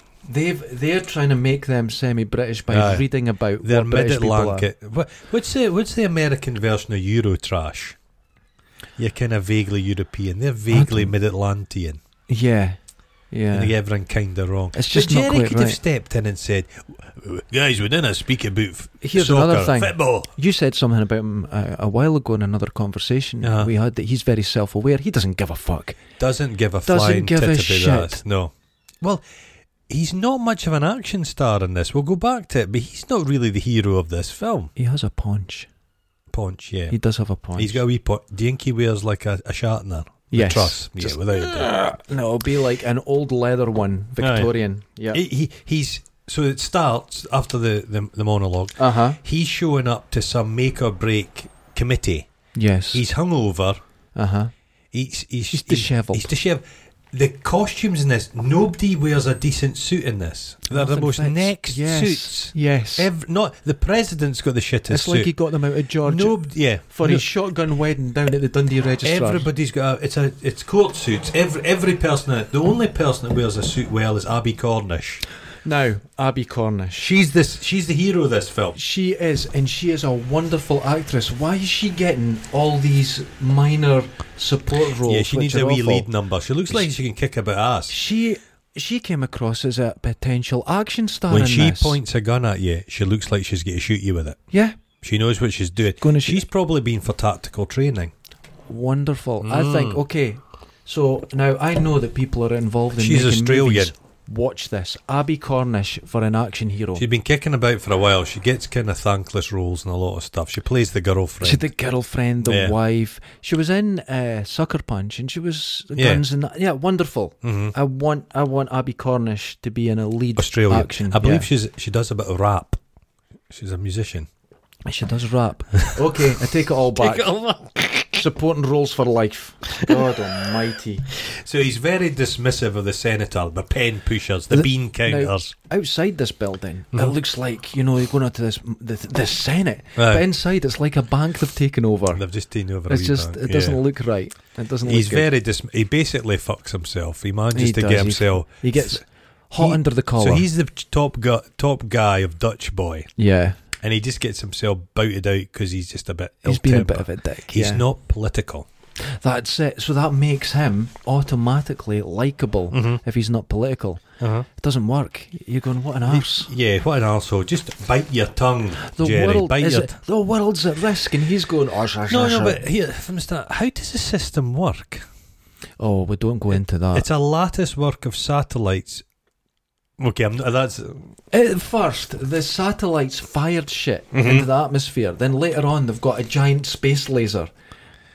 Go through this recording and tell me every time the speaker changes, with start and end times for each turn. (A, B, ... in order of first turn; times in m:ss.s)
0:00.2-0:04.7 A
0:02.7-0:03.1 B
0:03.6-0:08.0 B
0:09.0-0:12.0 B
0:10.7-0:11.1 A
0:12.3-0:12.8 A
0:13.3-0:13.7 A
0:13.5-0:20.3 B
0:14.7-0:15.8 A
0:19.0-0:26.0 A
0:23.4-0:23.7 B
0:26.2-0:29.2 B
0:26.8-0:28.2 A
0:29.9-0:34.7 B
0:34.8-0:35.7 A
0:36.3-0:37.0 B
0:36.9-0:37.8 A
0:37.6-0:41.7 B
0:40.3-0:45.2 A
0:44.2-0:44.5 B
0:45.1-0:52.3 B
0:48.8-0:49.2 A
0:52.5-0:53.0 A
0:52.9-0:53.8 B
0:54.1-0:54.5 A
0:54.9-1:05.3 B
0:55.5-0:56.3 A
1:00.7-1:03.1 A
1:04.9-1:09.5 A
1:06.0-1:07.3 B
1:09.0-1:15.2 B
1:15.6-1:17.1 A
1:17.0-1:18.8 B
1:18.7-1:26.1 A
1:25.0-1:27.9 B
1:27.9-1:32.0 A
1:31.3-1:34.4 B
1:34.5-1:34.8 A
1:35.0-1:38.1 B
1:36.0-1:36.4 A
1:38.7-1:47.0 A
1:39.4-1:40.0 B
1:43.0-1:43.9 B
1:47.0-1:51.7 B
1:51.4-2:01.5 A
1:52.4-1:52.8 B
1:56.0-1:56.2 B
1:57.4-1:57.7 B
2:00.4-2:02.8 B
2:03.5-2:04.3 B
2:04.8-2:07.3 A
2:05.8-2:06.4 B
2:07.0-2:08.2 B
2:08.1-2:11.1 A
2:09.8-2:10.2 B
2:11.1-2:15.5 B
2:14.5-2:22.2 A
2:20.0-2:20.2 B
2:22.1-2:23.8 B
2:22.9-2:25.3 A
2:24.8-2:29.0 B
2:27.5-2:30.5 A
2:29.6-2:33.1 B
2:33.2-2:33.6 A
2:33.8-2:38.7 B
2:36.4-2:37.8 A
2:39.0-2:44.0 A
2:42.7-2:43.0 B
2:44.2-2:44.5 B
2:44.6-2:46.5 A
2:46.1-2:49.9 B
2:48.8-2:52.6 A
2:52.1-2:55.0 B
2:55.8-2:57.1 A
2:56.9-2:59.0 B
3:00.0-3:01.1 B
3:01.3-3:07.5 A
3:04.1-3:04.5 B